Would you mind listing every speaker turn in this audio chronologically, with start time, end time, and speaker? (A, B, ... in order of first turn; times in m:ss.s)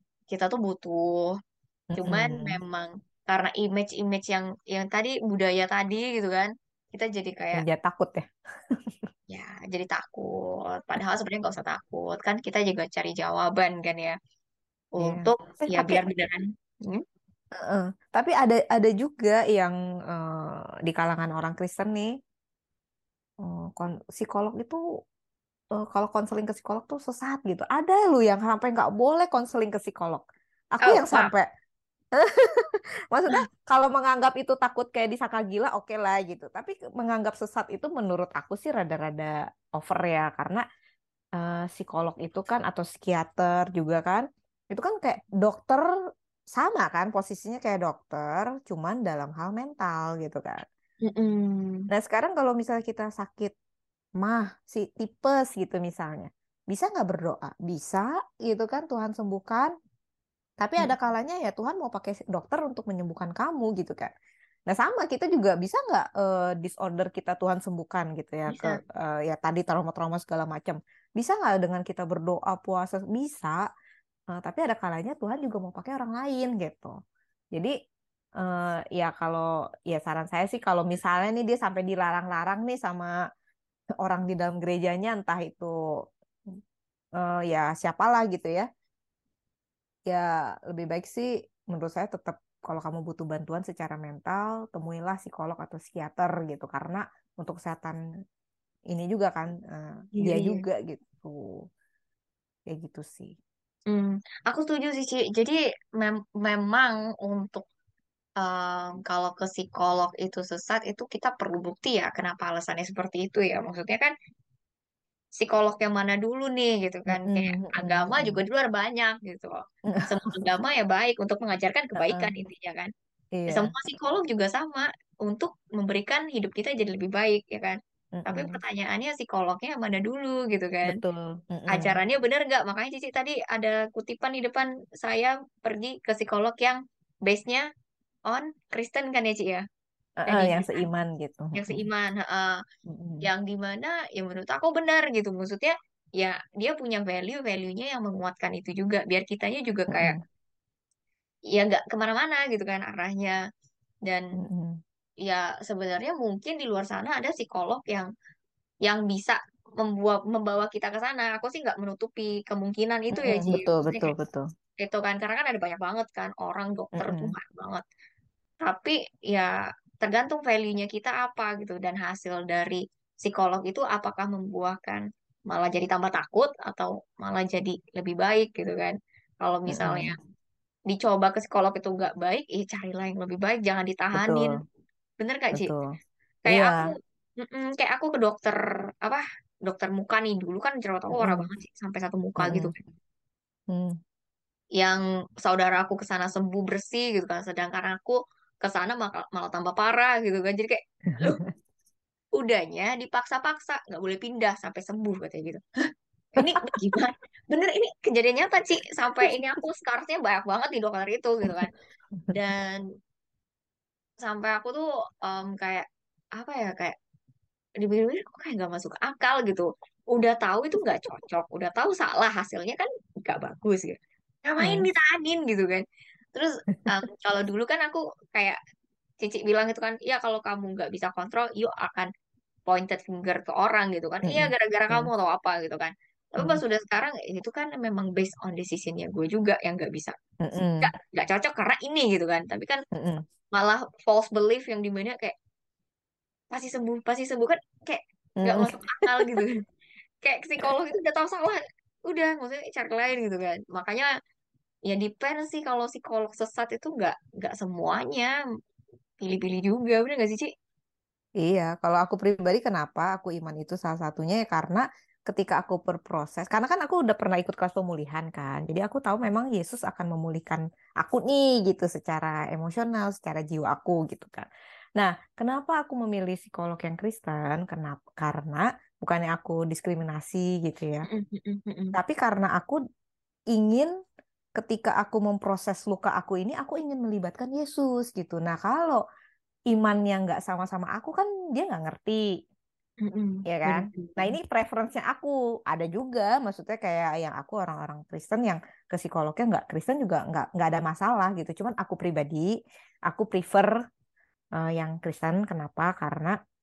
0:00.3-0:01.4 A
0:01.9-0:02.6 B
0:02.0-0:07.6 A
0:07.5-0:08.3 B
0:09.3-0:14.2 A
0:15.0-0:17.0 A
0:15.0-0:16.0 B
0:17.6-0:22.1 B
0:23.4-0:24.8 B
0:25.8-0:31.5 B
0:30.8-0:31.3 A
0:32.2-0:40.6 B
0:41.4-0:45.9 B
0:46.5-0:50.6 B
0:51.0-0:51.9 A
0:51.9-0:53.5 B
0:54.2-0:59.7 B
1:00.6-1:04.1 B
1:04.7-1:13.6 B
1:08.5-1:08.8 A
1:14.3-1:16.9 B
1:18.4-1:23.1 B
1:24.0-1:25.7 B
1:27.2-1:28.7 B
1:30.1-1:38.0 B
1:38.9-1:41.6 B
1:40.2-1:40.6 A
1:42.7-1:43.4 B
1:43.9-1:47.6 A
1:48.4-1:54.1 A
1:55.4-2:02.9 A
1:57.1-1:58.4 B
1:59.9-2:00.3 B
2:02.0-2:02.3 B
2:03.4-2:03.7 B
2:03.5-2:11.0 A
2:08.2-2:08.6 B
2:10.8-2:12.0 B
2:11.7-2:17.6 A
2:18.3-2:19.6 A
2:20.2-2:21.8 B
2:20.3-2:20.8 A
2:21.6-2:22.6 A
2:22.9-2:23.3 B
2:23.2-2:30.2 A
2:29.9-2:30.2 B
2:31.5-2:33.4 A
2:34.1-2:34.3 A
2:34.4-2:34.8 B
2:35.2-2:38.1 A
2:38.8-2:44.1 A
2:43.1-2:44.4 B
2:44.8-2:47.8 A
2:47.0-2:47.4 B
2:48.6-3:00.2 A
2:59.7-3:00.2 B
3:00.9-3:04.6 A
3:04.1-3:04.6 B
3:05.2-3:05.7 A
3:05.5-3:06.0 B
3:06.5-3:12.8 A
3:06.5-3:06.9 B
3:11.2-3:11.5 B
3:12.4-3:12.7 B
3:14.8-3:21.4 A
3:21.1-3:21.5 B
3:22.4-3:25.6 A
3:26.4-3:31.7 A
3:32.3-3:32.8 A
3:34.2-3:37.0 A
3:37.8-3:45.8 A
3:44.6-3:44.9 B
3:46.4-3:48.6 A
3:49.2-3:52.1 A
3:52.7-4:00.1 A
3:54.3-3:55.1 B
4:00.4-4:00.9 B
4:00.8-4:02.8 A
4:02.9-4:03.2 B
4:03.5-4:05.4 A
4:06.5-4:09.6 A
4:08.4-4:09.4 B
4:10.2-4:14.1 A
4:14.9-4:18.3 A
4:19.2-4:20.5 A
4:21.4-4:41.1 B
4:41.1-4:42.0 A
4:41.9-4:42.8 B
4:43.5-4:43.9 B
4:44.6-4:49.0 B
4:49.7-4:52.2 B
4:53.0-4:54.4 A
4:53.5-5:02.5 B
5:03.1-5:03.7 B
5:04.6-5:06.4 B